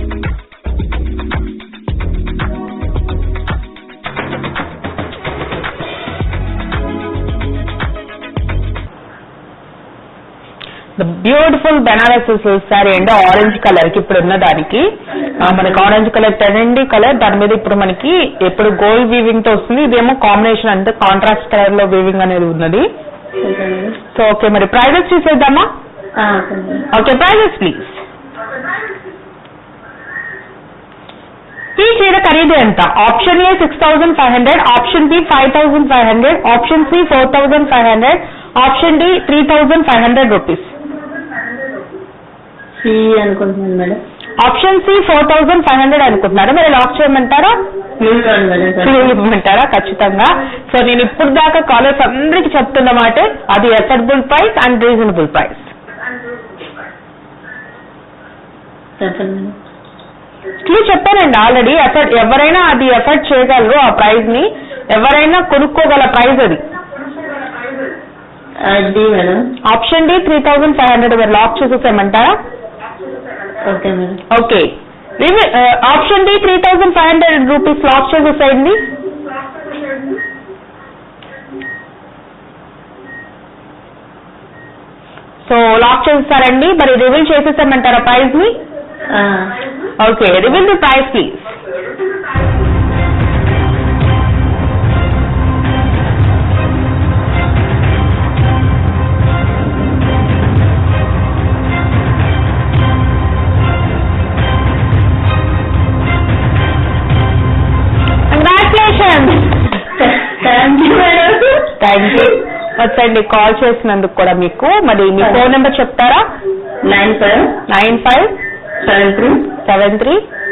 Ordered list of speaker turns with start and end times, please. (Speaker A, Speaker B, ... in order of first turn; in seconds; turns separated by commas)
Speaker A: 11.0-14.9, Speaker A: 15.4-22.9, Speaker B: 15.4-15.9, Speaker B: 23.4-24.0, Speaker A: 24.1-25.7, Speaker B: 26.2-26.9, Speaker A: 26.9-28.0, Speaker A: 31.8-40.7, Speaker B: 42.8-44.0, Speaker A: 44.4-47.6, Speaker B: 48.0-49.1, Speaker A: 48.8-55.7, Speaker B: 59.0-59.6, Speaker A: 60.6-66.6, Speaker B: 68.6-69.4, Speaker A: 69.7-72.4, Speaker B: 73.6-74.2, Speaker A: 74.3-78.8, Speaker A: 85.5-88.6, Speaker B: 89.1-89.5, Speaker A: 90.0-91.5, Speaker A: 108.3-109.7, Speaker B: 110.0-112.3, Speaker A: 111.8-116.2, Speaker B: 116.8-117.6, Speaker A: 117.7-118.3, Speaker B: 118.8-119.5, Speaker A: 119.6-120.2